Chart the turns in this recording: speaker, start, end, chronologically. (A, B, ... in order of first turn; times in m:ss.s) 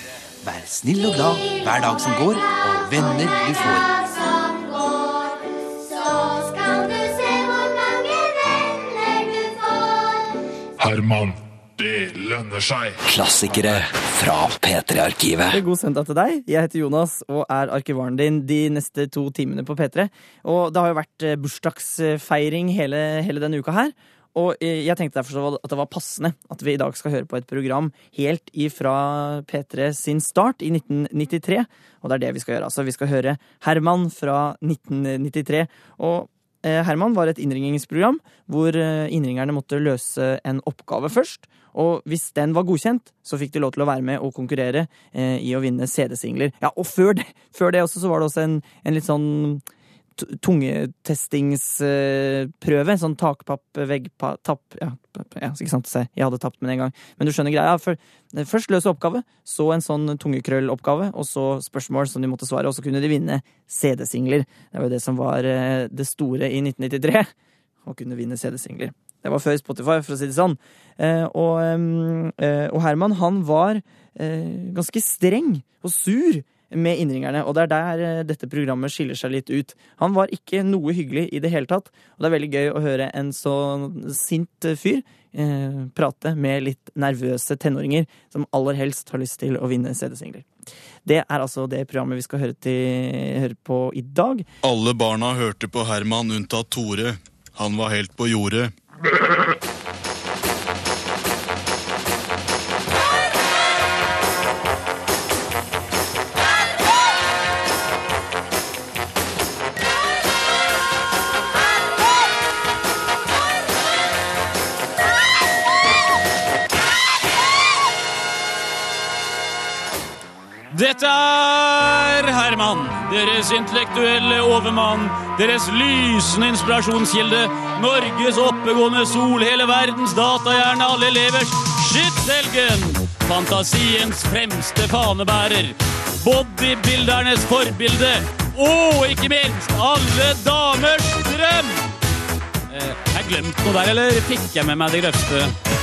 0:00.4-0:04.0 A
0:10.8-0:13.7 B
0:13.0-0:15.6 C
0:15.5-0:49.6 D
0:50.2-1:07.3 D
1:07.8-1:30.5 D
1:31.0-1:34.4 D
1:34.6-1:38.7 E
2:00.7-2:21.9 F
2:22.7-2:25.5 F